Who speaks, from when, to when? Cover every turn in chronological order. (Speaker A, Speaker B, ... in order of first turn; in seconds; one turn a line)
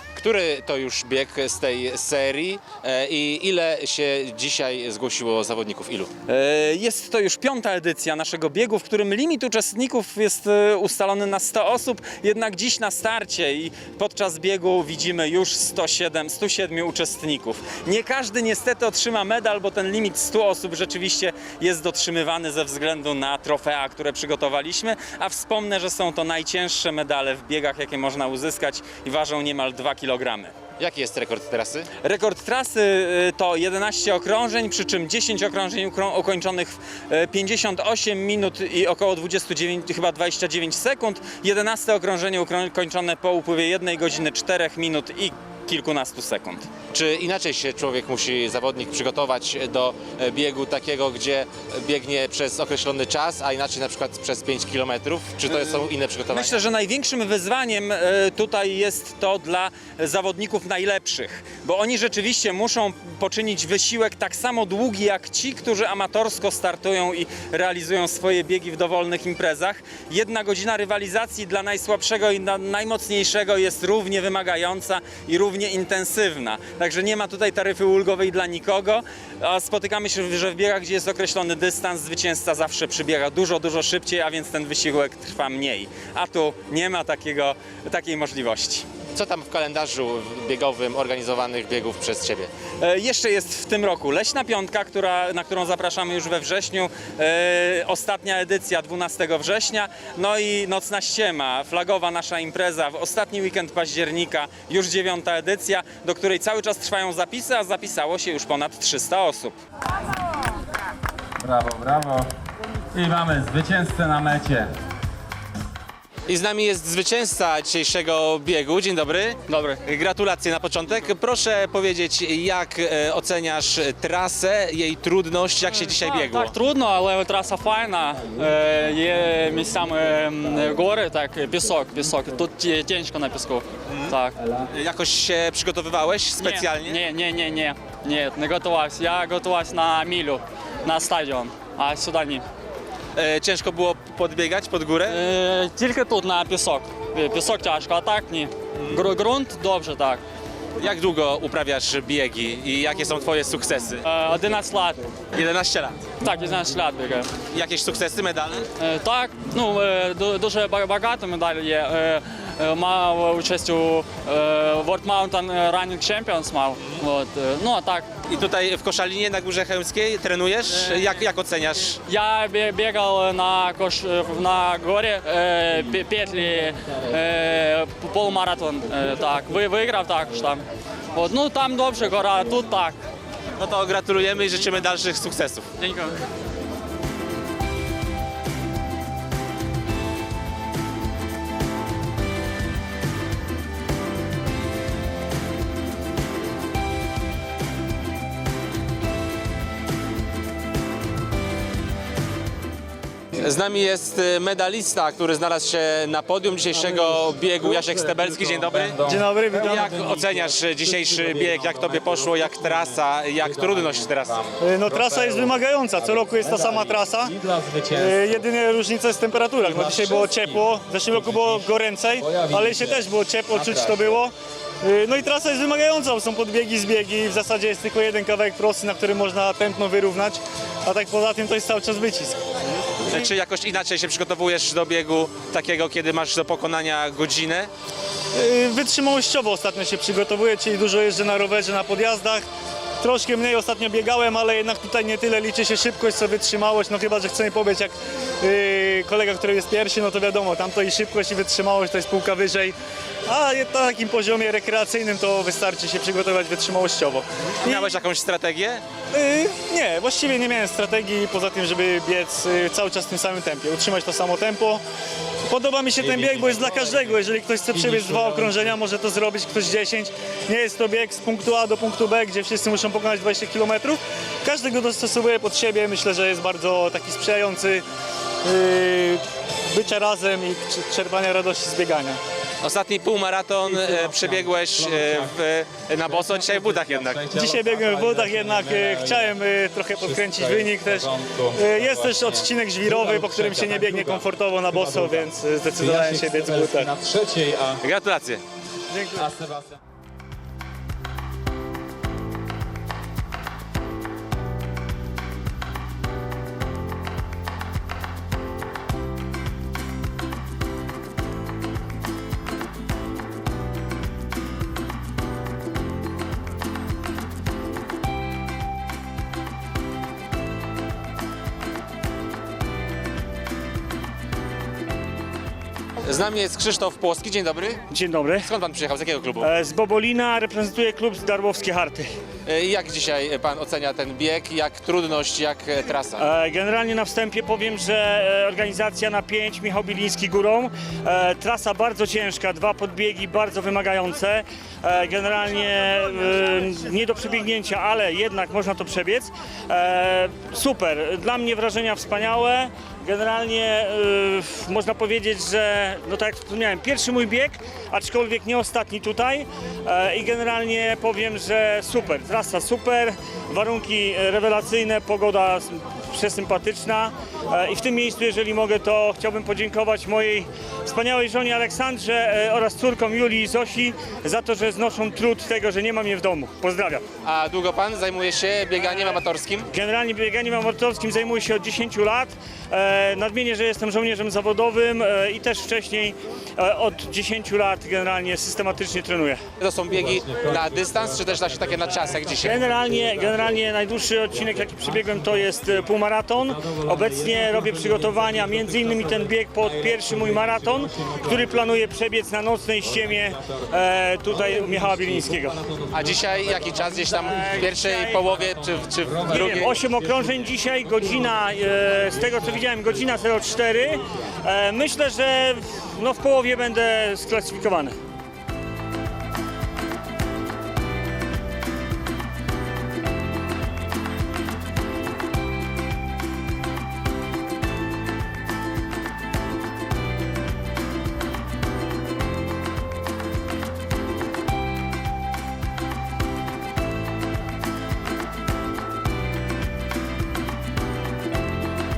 Speaker A: 0.2-6.1
Speaker B: 6.3-30.5
Speaker A: 30.8-31.9
Speaker B: 32.0-46.7
Speaker A: 46.9-56.6
Speaker B: 56.3-88.9
Speaker A: 89.1-92.5
Speaker B: 92.8-109.6
Speaker B: 111.4-112.3
Speaker B: 112.9-114.7
Speaker A: 116.3-126.5
Speaker C: 119.5-119.8
Speaker C: 125.8-134.5
Speaker A: 133.9-137.0
Speaker C: 136.4-142.4
Speaker A: 143.2-145.2
Speaker C: 145.1-150.2
Speaker A: 150.8-154.1
Speaker C: 154.1-155.1
Speaker A: 155.3-156.1
Speaker C: 156.2-157.3
Speaker A: 157.4-158.7
Speaker C: 158.8-168.1
Speaker A: 168.3-172.0
Speaker C: 172.1-183.0
Speaker A: 183.6-185.7
Speaker C: 185.8-186.2
Speaker A: 203.3-209.0
Speaker D: 206.8-214.3
Speaker E: 209.1-209.8
Speaker A: 209.6-214.5
Speaker E: 214.7-217.3
Speaker D: 214.9-218.4
Speaker F: 216.4-216.9
Speaker E: 218.0-224.3
Speaker D: 219.6-221.7
Speaker D: 222.2-224.2
Speaker E: 224.8-232.3
Speaker A: 232.8-237.7
Speaker E: 238.4-242.4
Speaker E: 243.0-252.7
Speaker E: 253.3-257.8
Speaker A: 257.6-258.8
Speaker E: 259.2-264.8
Speaker E: 265.5-277.8
Speaker D: 266.0-268.8
Speaker F: 267.8-268.7
Speaker E: 278.7-279.2
Speaker E: 279.7-282.2
Speaker A: 282.6-287.3
Speaker D: 283.7-285.3
Speaker D: 286.1-289.4
Speaker E: 287.4-296.9
Speaker D: 290.0-297.8
Speaker A: 297.8-298.4
Speaker D: 299.2-299.8
Speaker A: 326.0-327.8
Speaker F: 327.9-328.5
Speaker A: 328.4-329.5
Speaker F: 329.4-332.1
Speaker A: 332.5-336.2
Speaker F: 336.2-377.0
Speaker A: 377.2-379.7
Speaker F: 379.7-389.4
Speaker A: 389.6-392.7
Speaker F: 392.4-405.6
Speaker D: 400.0-401.1
Speaker A: 405.9-409.8
Speaker F: 407.6-407.9
Speaker F: 409.2-417.9